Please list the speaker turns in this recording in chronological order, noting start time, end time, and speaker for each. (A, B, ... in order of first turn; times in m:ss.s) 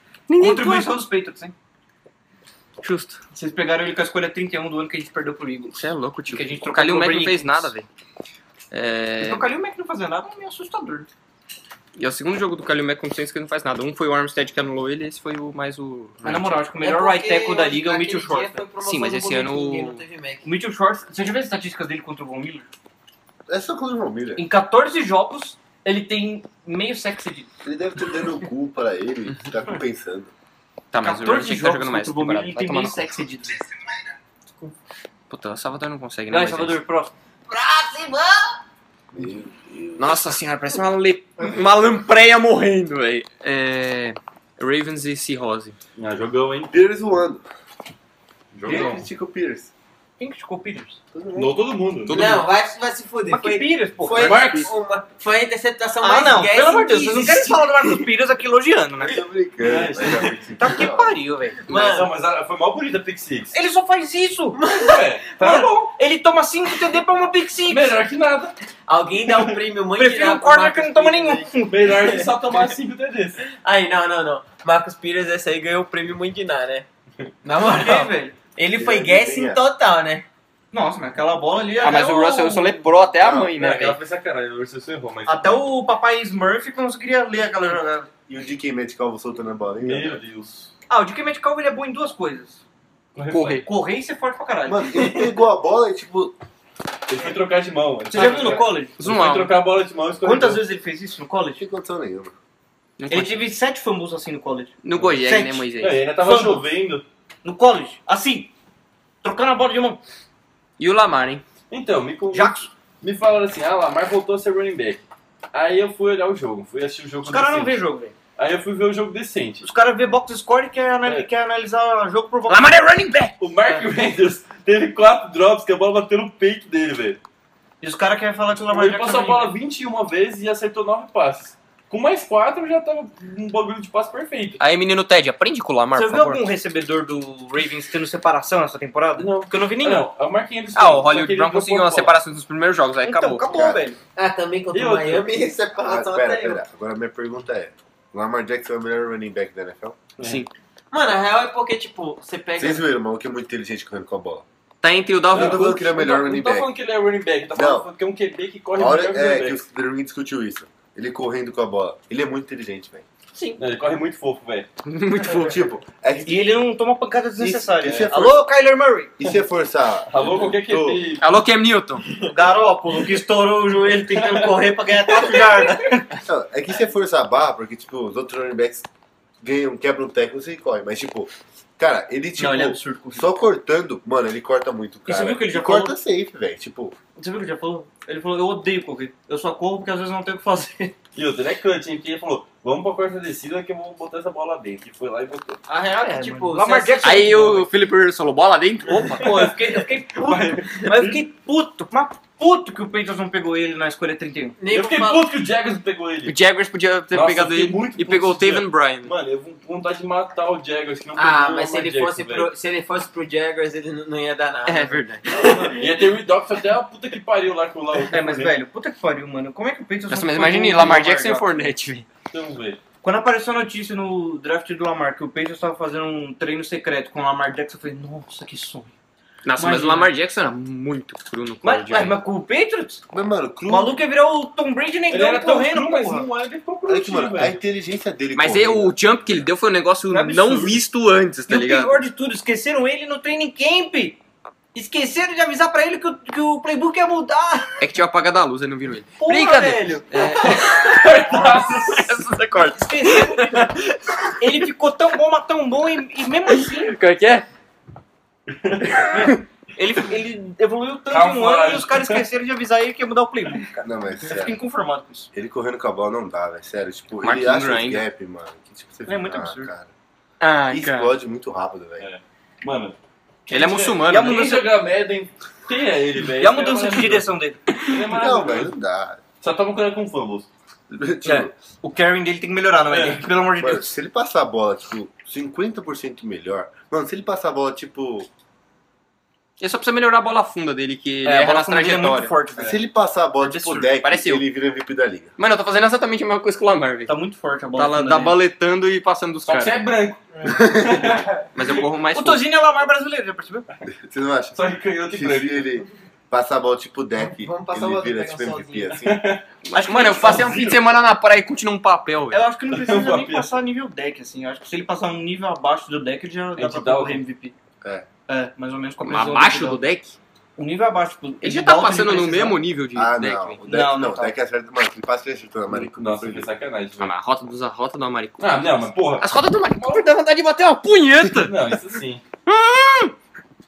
0:00.3-0:01.0 A
0:00.4-0:01.5 B
0:02.8-0:03.2 A
0:03.3-0:07.7 B
0:05.7-0:07.9 A
0:08.7-0:09.4 A
0:09.2-0:11.1 B
0:12.0-0:16.6 A
0:16.2-0:18.6 B
0:16.8-0:20.4 C
0:18.8-0:20.0 A
0:20.4-0:22.7 B
0:23.5-0:24.4 D
0:24.4-0:27.5 B
0:27.6-0:30.3 D
0:30.9-0:33.0 A
0:31.0-0:33.6 B
0:35.3-0:36.8 A
0:36.3-0:37.1 B
0:37.5-0:38.6 C
0:39.1-0:40.2 D
0:40.0-0:45.8 A
0:46.0-0:46.7 E
0:46.7-0:47.4 D
0:48.5-0:49.0 E
0:48.6-0:49.7 D
0:48.7-0:49.0 B
0:50.2-0:51.0 B
0:51.1-0:51.6 D
0:51.3-0:52.5 E
0:52.1-0:58.0 C
0:52.1-0:52.3 A
0:53.3-0:54.4 B
0:54.1-0:54.7 E
0:56.0-0:59.2 B
0:59.0-1:01.2 D
0:59.6-1:00.5 E
1:00.6-1:01.9 B
1:01.7-1:02.1 C
1:01.7-1:03.5 E
1:03.5-1:04.6 B
1:04.5-1:05.3 C
1:04.7-1:05.8 E
1:05.4-1:08.0 B
1:07.7-1:08.5 E
1:08.9-1:12.5 C
1:09.2-1:09.6 E
1:10.0-1:11.9 B
1:11.7-1:13.4 E
1:13.5-1:16.8 C
1:17.4-1:20.2 C
1:17.6-1:18.3 B
1:18.7-1:19.6 D
1:20.7-1:22.8 B
1:21.8-1:24.0 A
1:23.2-1:23.5 D
1:23.3-1:25.6 E
1:25.2-1:28.1 B
1:28.3-1:30.2 D
1:29.8-1:30.7 E
1:30.9-1:32.6 B
1:33.2-1:33.6 E
1:33.3-1:33.6 A
1:33.6-1:35.2 B
1:34.7-1:36.4 D
1:37.1-1:40.6 E
1:38.1-1:39.0 B
1:39.0-1:39.6 A
1:40.2-1:41.6 B
1:41.6-1:42.3 D
1:43.0-1:43.5 A
1:43.1-1:46.7 B
1:44.8-1:46.0 A
1:45.8-1:47.0 E
1:47.4-1:48.5 B
1:49.2-1:50.0 B
1:50.8-1:51.4 A
1:51.7-1:55.0 E
1:52.3-1:52.7 B
1:55.5-1:57.8 E
1:57.2-1:58.1 B
1:58.4-1:59.6 E
1:59.6-2:02.7 B
2:02.5-2:03.3 A
2:03.4-2:07.2 E
2:07.8-2:09.5 B
2:08.6-2:14.6 E
2:14.6-2:16.4 A
2:15.9-2:20.1 B
2:19.2-2:22.1 E
2:20.7-2:23.4 A
2:23.0-2:24.0 B
2:23.5-2:23.8 D
2:24.2-2:26.6 C
2:24.7-2:25.3 E
2:25.8-2:30.0 D
2:30.2-2:30.4 E
2:30.2-2:30.5 A
2:30.9-2:32.8 C
2:32.6-2:34.4 D
2:34.8-2:35.9 A
2:35.3-2:39.6 E
2:35.3-2:36.7 D
2:37.5-2:37.9 D
2:38.7-2:43.0 D
2:43.6-2:44.7 E
2:44.8-2:45.6 A
2:45.3-2:46.6 D
2:46.2-2:49.1 B
2:47.4-2:48.5 D
2:47.9-2:48.1 E
2:49.2-2:51.0 D
2:50.1-2:51.3 E
2:51.2-2:52.0 A
2:52.2-2:56.2 B
2:54.2-2:54.5 E
2:56.2-2:58.8 D
2:59.4-3:07.0 D
3:02.4-3:03.3 B
3:05.1-3:06.0 B
3:07.2-3:10.9 B
3:11.1-3:15.6 E
3:15.7-3:17.3 C
3:16.0-3:17.6 B
3:17.0-3:19.2 A
3:18.9-3:24.6 B
3:19.1-3:21.2 E
3:24.6-3:25.3 C
3:24.6-3:26.4 E
3:26.2-3:29.1 A
3:27.1-3:32.5 E
3:31.2-3:36.0 C
3:34.6-3:35.2 A
3:35.3-3:38.6 E
3:38.1-3:41.7 B
3:40.1-3:42.0 A
3:42.3-3:42.8 E
3:43.0-3:48.9 B
3:49.4-3:52.2 A
3:49.6-3:50.1 B
3:51.6-3:53.0 B
3:53.1-3:54.0 D
3:53.7-3:56.3 B
3:55.1-3:57.6 E
3:56.9-3:59.0 D
3:58.3-4:02.0 A
4:00.1-4:00.8 B
4:01.5-4:04.2 B
4:04.7-4:07.8 B
4:07.8-4:13.5 A
4:09.2-4:10.6 B
4:10.4-4:12.2 E
4:11.3-4:11.6 B
4:12.8-4:13.8 B
4:14.4-4:17.0 B
4:16.5-4:17.5 A
4:18.5-4:19.3 E
4:19.1-4:25.3 B
4:21.1-4:22.2 E
4:23.8-4:24.6 D
4:25.3-4:29.9 D
4:27.2-4:28.0 A
4:29.1-4:29.7 B
4:30.4-4:31.1 A
4:30.7-4:32.1 D
4:32.0-4:33.0 E
4:33.5-4:34.6 A
4:33.5-4:38.7 E
4:34.1-4:34.7 B
4:36.4-4:37.8 B
4:38.0-4:39.2 D
4:39.4-4:40.5 E
4:40.9-4:41.5 D
4:41.2-4:44.0 B
4:42.8-4:43.3 E
4:43.6-4:48.3 D
4:49.6-4:52.3 A
4:51.2-4:52.8 B
4:52.6-4:55.3 D
4:53.4-4:53.9 B
4:54.0-4:54.4 A
4:55.4-4:57.1 A
4:57.1-4:58.4 B
4:57.8-4:59.8 A
4:59.4-5:01.8 E
5:00.5-5:01.2 D
5:01.5-5:02.4 A
5:02.1-5:03.7 B
5:03.9-5:09.4 D
5:04.5-5:05.7 E
5:07.2-5:09.0 C
5:08.9-5:09.4 E
5:09.6-5:12.4 A
5:09.7-5:10.7 B
5:10.0-5:10.8 E
5:12.3-5:17.5 B
5:12.7-5:13.5 E
5:16.6-5:17.2 E
5:17.8-5:18.1 D
5:18.3-5:19.8 B
5:19.0-5:20.2 A
5:20.6-5:22.6 B
5:21.4-5:23.6 A
5:22.9-5:26.5 D
5:23.6-5:24.3 B
5:25.7-5:27.1 E
5:27.0-5:31.5 A
5:28.4-5:30.1 E
5:31.3-5:32.2 E
5:32.4-5:33.1 A